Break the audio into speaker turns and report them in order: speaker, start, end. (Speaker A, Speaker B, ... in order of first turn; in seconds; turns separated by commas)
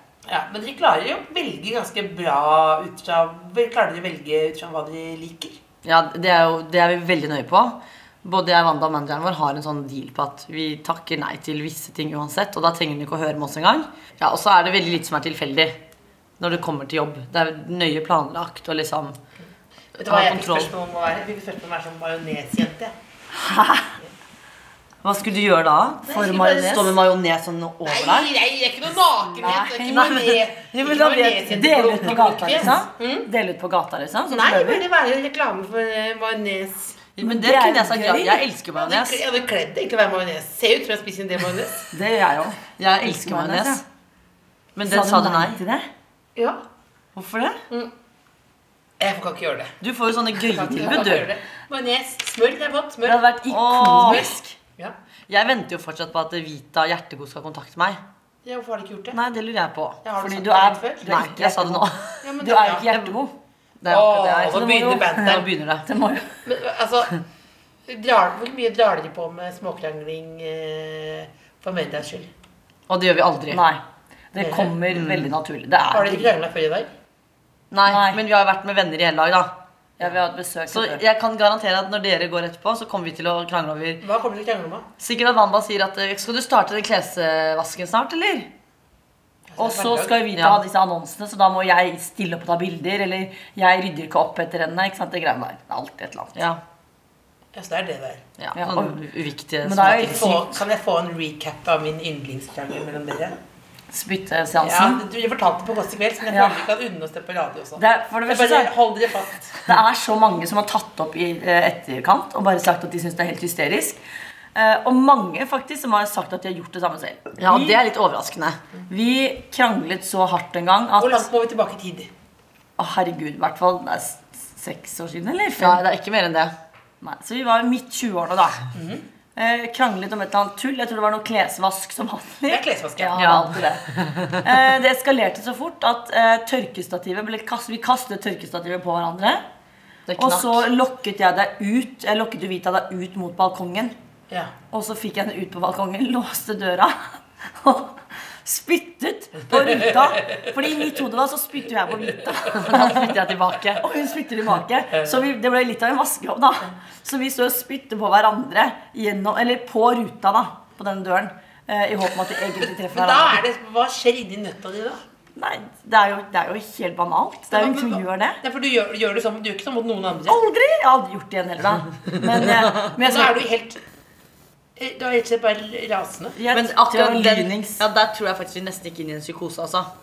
Speaker A: 0.3-5.6, Speaker B: 5.8-15.8, Speaker B: 16.4-19.2, Speaker A: 20.0-22.9, Speaker B: 20.0-20.7, Speaker C: 23.4-23.9, Speaker B: 25.0-28.3, Speaker A: 26.1-26.9, Speaker C: 26.1-26.9, Speaker A: 27.8-33.3, Speaker C: 29.4-30.3, Speaker B: 29.9-30.2, Speaker B: 30.7-31.6, Speaker C: 30.9-34.8, Speaker B: 32.1-32.5, Speaker A: 34.3-37.0, Speaker B: 37.2-39.2, Speaker C: 37.2-38.5, Speaker A: 38.7-41.9, Speaker C: 41.9-43.8, Speaker B: 42.8-43.8, Speaker B: 44.8-45.6, Speaker C: 44.8-45.9, Speaker A: 46.4-46.6, Speaker B: 47.1-47.6, Speaker A: 49.0-49.7, Speaker B: 49.8-51.3, Speaker A: 50.3-53.3, Speaker C: 53.0-54.5, Speaker B: 53.5-54.4, Speaker A: 53.9-55.0, Speaker B: 55.3-58.0, Speaker A: 58.4-59.2, Speaker B: 59.1-60.0, Speaker A: 60.0-61.2, Speaker C: 60.2-63.3, Speaker B: 61.0-62.2, Speaker A: 62.2-63.2, Speaker B: 63.8-65.8, Speaker A: 63.9-65.5, Speaker C: 65.8-66.3, Speaker A: 66.4-67.1, Speaker A: 67.9-72.3, Speaker B: 72.9-73.6, Speaker C: 73.5-73.8, Speaker C: 74.3-76.3, Speaker A: 74.3-74.8, Speaker B: 74.9-75.2, Speaker A: 75.9-76.9, Speaker B: 77.7-79.5, Speaker C: 77.8-78.2, Speaker C: 80.0-81.0, Speaker B: 80.7-84.0, Speaker A: 84.0-84.9, Speaker B: 85.0-88.5, Speaker A: 89.5-90.2, Speaker C: 89.6-96.4, Speaker B: 90.3-90.6, Speaker B: 96.3-96.6, Speaker A: 97.5-98.2, Speaker B: 98.4-100.3, Speaker C: 98.5-99.0, Speaker C: 99.6-100.5, Speaker A: 100.0-103.4, Speaker C: 103.9-105.0, Speaker A: 104.6-109.6, Speaker C: 106.3-106.7, Speaker C: 107.8-108.7, Speaker C: 109.7-114.0, Speaker C: 114.5-117.8, Speaker B: 117.4-118.6, Speaker C: 118.9-121.2, Speaker A: 121.0-122.1, Speaker C: 122.8-125.8, Speaker B: 125.6-126.5, Speaker C: 127.0-128.6, Speaker A: 128.7-129.0, Speaker C: 129.3-139.4, Speaker A: 132.5-133.6, Speaker B: 133.2-133.5, Speaker B: 140.1-140.6, Speaker C: 140.2-143.9, Speaker C: 144.7-163.4, Speaker B: 152.5-153.8, Speaker A: 162.8-165.0, Speaker C: 165.3-168.4, Speaker A: 167.5-170.4, Speaker C: 170.3-173.4, Speaker A: 172.9-173.8, Speaker A: 174.8-176.4, Speaker C: 176.4-177.8, Speaker B: 176.5-179.9